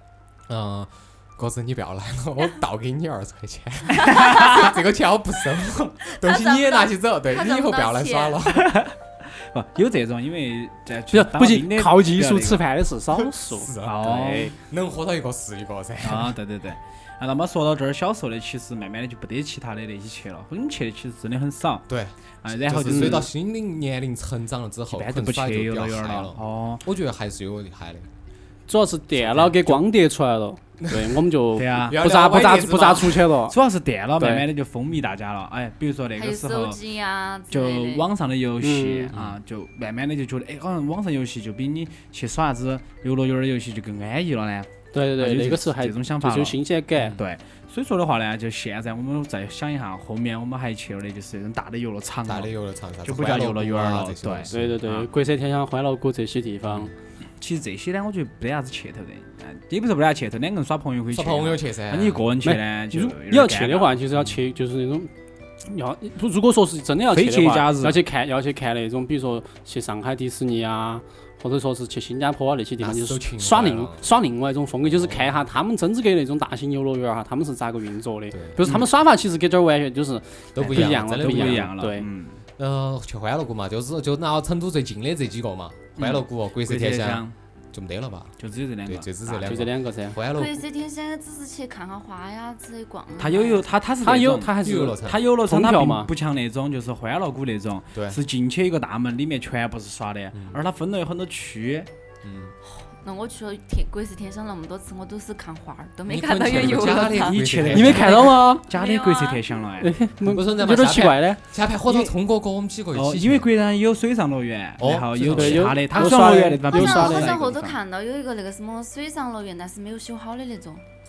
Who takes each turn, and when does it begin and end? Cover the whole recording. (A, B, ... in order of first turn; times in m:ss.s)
0:00.5-0:08.8 A
0:04.0-0:04.6 B
0:06.1-0:08.4 C
0:08.5-0:12.7 B
0:11.1-0:14.5 D
0:13.2-0:16.4 A
0:13.8-0:14.5 B
0:16.0-0:21.9 B
0:21.9-0:28.1 A
0:22.4-0:23.3 B
0:22.9-0:23.2 D
0:24.9-0:26.8 B
0:28.7-0:33.6 D
0:29.2-0:29.7 A
0:30.8-0:31.1 A
0:31.6-0:32.0 B
0:31.9-0:33.3 A
0:33.5-0:36.8 B
0:34.2-0:34.4 D
0:36.2-0:38.1 C
0:37.5-0:52.5 B
0:38.6-0:39.1 D
0:39.1-0:39.4 A
0:44.9-0:47.2 D
0:52.2-0:54.8 A
0:53.0-0:55.1 B
0:54.5-0:56.9 D
0:56.7-0:56.9 A
0:57.4-1:04.0 B
1:01.1-1:02.3 A
1:02.4-1:05.1 D
1:05.7-1:22.1 D
1:07.1-1:08.0 B
1:12.8-1:14.1 A
1:14.8-1:15.4 A
1:18.3-1:18.6 A
1:20.6-1:21.8 A
1:20.6-1:22.4 B
1:22.6-1:30.6 A
1:26.0-1:27.3 B
1:28.4-1:29.6 B
1:29.4-1:30.2 D
1:30.3-1:33.7 C
1:33.2-1:41.9 B
1:34.0-1:36.1 D
1:34.6-1:35.3 A
1:37.9-1:38.2 A
1:40.3-1:40.6 A
1:42.2-1:42.6 A
1:42.7-1:47.6 C
1:46.1-1:48.3 A
1:46.5-1:49.9 B
1:47.7-1:48.6 D
1:48.5-1:49.6 C
1:49.8-1:51.4 D
1:50.2-1:53.5 A
1:51.9-1:52.1 B
1:52.9-1:57.8 B
1:54.8-1:55.8 A
1:55.3-1:57.4 D
1:56.7-2:00.8 C